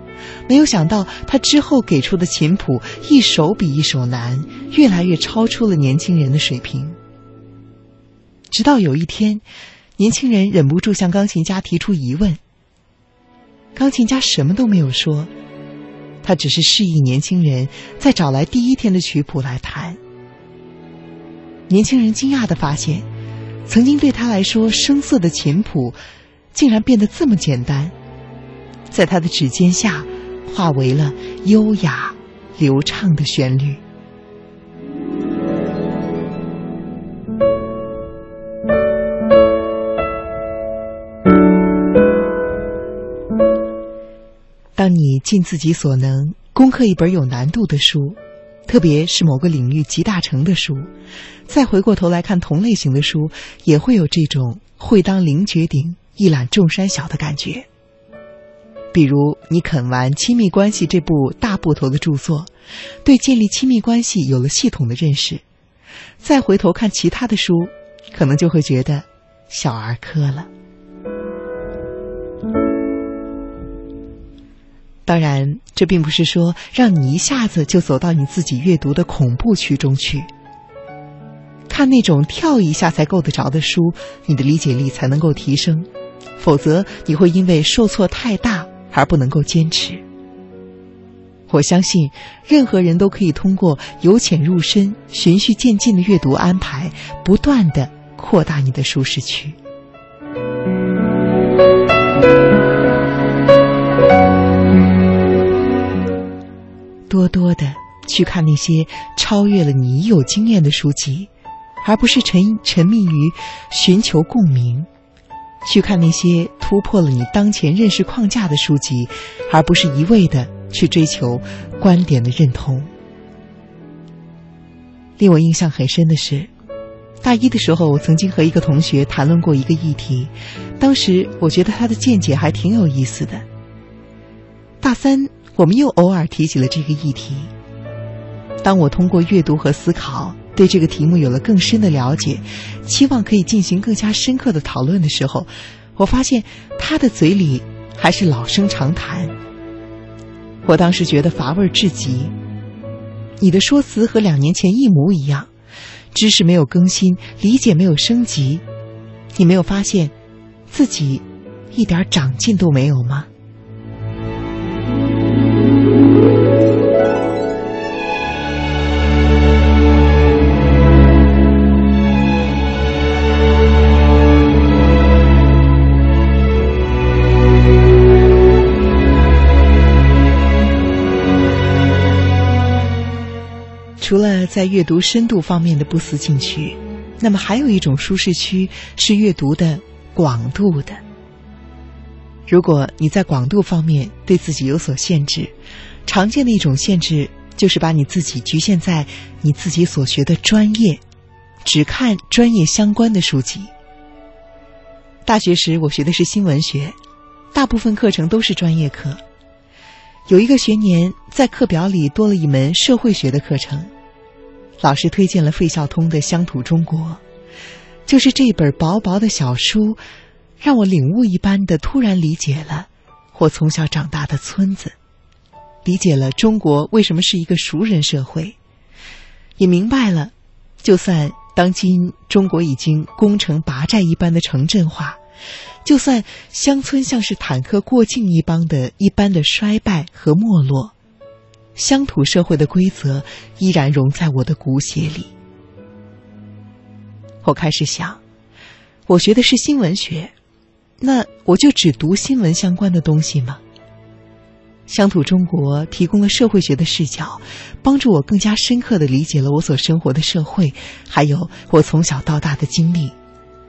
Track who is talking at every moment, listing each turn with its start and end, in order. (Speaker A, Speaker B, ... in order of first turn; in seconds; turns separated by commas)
Speaker A: 0.5-7.0, Speaker A: 8.5-9.4, Speaker A: 10.0-12.4, Speaker A: 13.8-15.3, Speaker A: 16.2-20.0, Speaker A: 21.7-23.1, Speaker A: 23.7-26.0, Speaker A: 26.5-27.9, Speaker A: 28.9-33.8, Speaker A: 44.8-50.9, Speaker A: 51.5-57.7, Speaker A: 58.9-62.5, Speaker A: 63.0-65.4, Speaker A: 66.2-70.5, Speaker A: 75.1-80.3, Speaker A: 81.7-90.0, Speaker A: 91.5-99.6, Speaker A: 107.1-111.3, Speaker A: 111.8-114.9, Speaker A: 115.6-122.9, Speaker A: 125.2-126.5, Speaker A: 127.2-133.4, Speaker A: 134.8-137.5, Speaker A: 138.6-149.3, Speaker A: 150.6-152.3, Speaker A: 153.4-155.5, Speaker A: 156.1-158.6, Speaker A: 159.3-160.1, Speaker A: 160.7-163.3, Speaker A: 184.0-191.0, Speaker A: 192.5-195.5, Speaker A: 196.1-201.0, Speaker A: 201.6-203.7, Speaker A: 205.2-207.0, Speaker A: 207.5-209.2, Speaker A: 210.3-213.9, Speaker A: 214.8-217.2, Speaker A: 218.1-220.0, Speaker A: 220.6-225.0, Speaker A: 225.8-228.6, Speaker A: 229.6-235.2, Speaker A: 235.8-240.9, Speaker A: 241.8-245.3, Speaker A: 247.4-248.2, Speaker A: 249.1-250.3, Speaker A: 251.0-253.6, Speaker A: 254.9-263.1